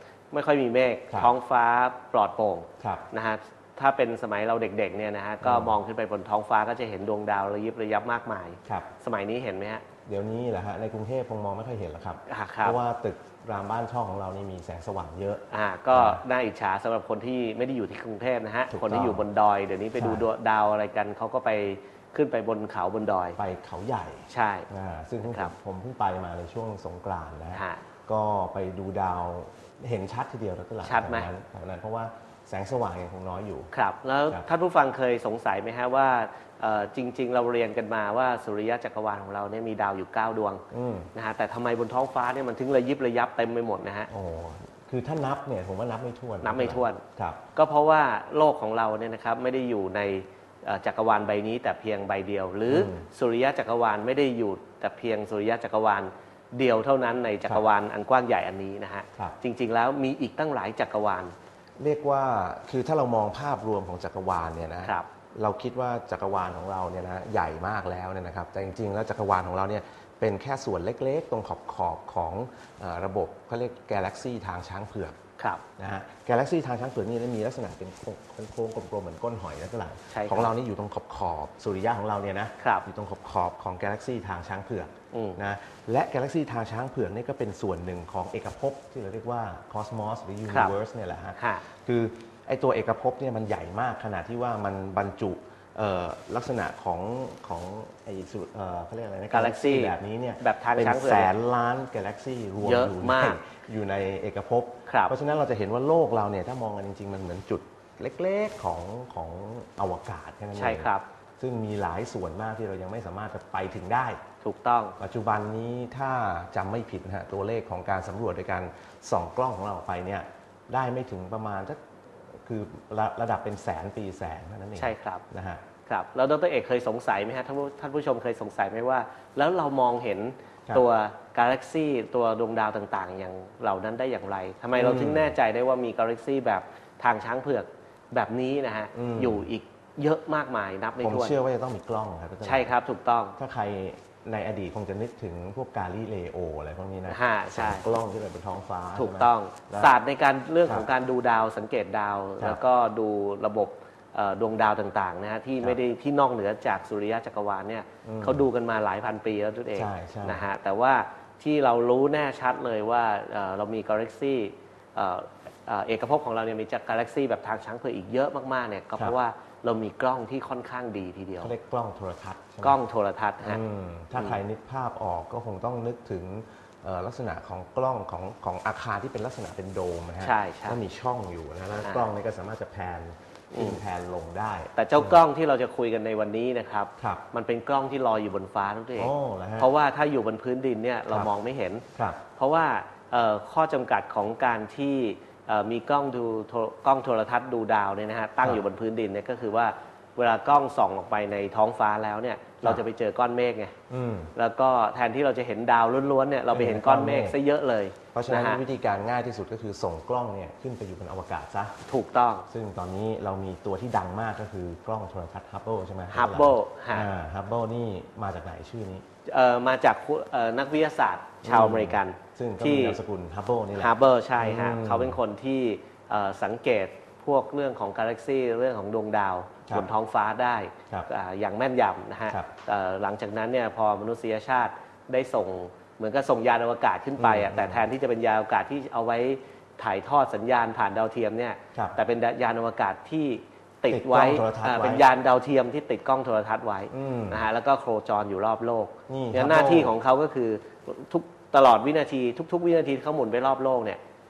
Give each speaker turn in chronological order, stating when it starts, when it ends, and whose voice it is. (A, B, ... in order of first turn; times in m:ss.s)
0:00.3-0:09.8 A
0:02.8-0:03.1 B
0:05.4-0:05.8 B
0:10.1-0:16.2 B
0:12.3-0:12.8 A
0:15.5-0:23.4 A
0:18.7-0:19.3 B
0:20.0-0:20.3 B
0:23.4-0:33.7 B
0:24.3-0:24.7 A
0:25.2-0:25.5 A
0:27.5-0:27.8 A
0:30.8-0:31.3 A
0:33.7-0:40.6 A
0:40.7-0:41.1 B
0:41.1-0:44.1 A
0:44.1-0:47.4 B
0:46.4-0:47.0 A
0:47.5-1:01.3 A
0:52.7-0:53.1 B
1:01.8-1:15.2 B
1:15.4-1:15.6 A
1:15.8-1:54.2 B
1:20.1-1:20.5 A
1:22.6-1:22.9 A
1:25.1-1:25.4 A
1:30.5-1:30.8 A
1:31.4-1:31.6 A
1:39.3-1:41.3 A
1:42.6-1:43.4 A
1:44.9-1:45.1 A
1:50.6-1:51.0 A
1:54.4-1:55.0 A
1:55.0-2:01.8 B
2:02.4-2:05.6 B
2:04.8-2:05.2 A
2:05.8-2:21.4 A
2:14.8-2:15.3 B
2:18.9-2:19.5 B
2:21.0-2:22.7 B
2:22.4-2:23.4 A
2:23.4-2:30.0 B
2:27.1-2:27.9 A
2:29.0-2:51.5 A
2:38.0-2:38.4 B
2:39.7-2:40.4 B
2:51.4-2:52.8 B
2:52.6-2:53.6 A
2:53.4-3:05.2 B
3:00.2-3:00.8 A
3:01.8-3:02.0 A
3:03.5-3:03.8 A
3:04.8-3:11.8 A
3:09.0-3:09.7 B
3:12.4-3:23.7 A
3:23.9-3:24.3 B
3:24.4-3:28.6 A
3:26.5-3:27.4 B
3:28.1-3:31.8 B
3:31.9-3:32.5 A
3:32.5-3:39.0 B
3:36.1-3:37.1 A
3:39.3-3:43.0 A
3:41.4-3:45.2 B
3:43.8-4:14.0 A
3:57.2-3:57.9 B
4:01.7-4:02.0 B
4:03.9-4:05.1 B
4:06.9-4:07.4 B
4:09.1-4:10.0 B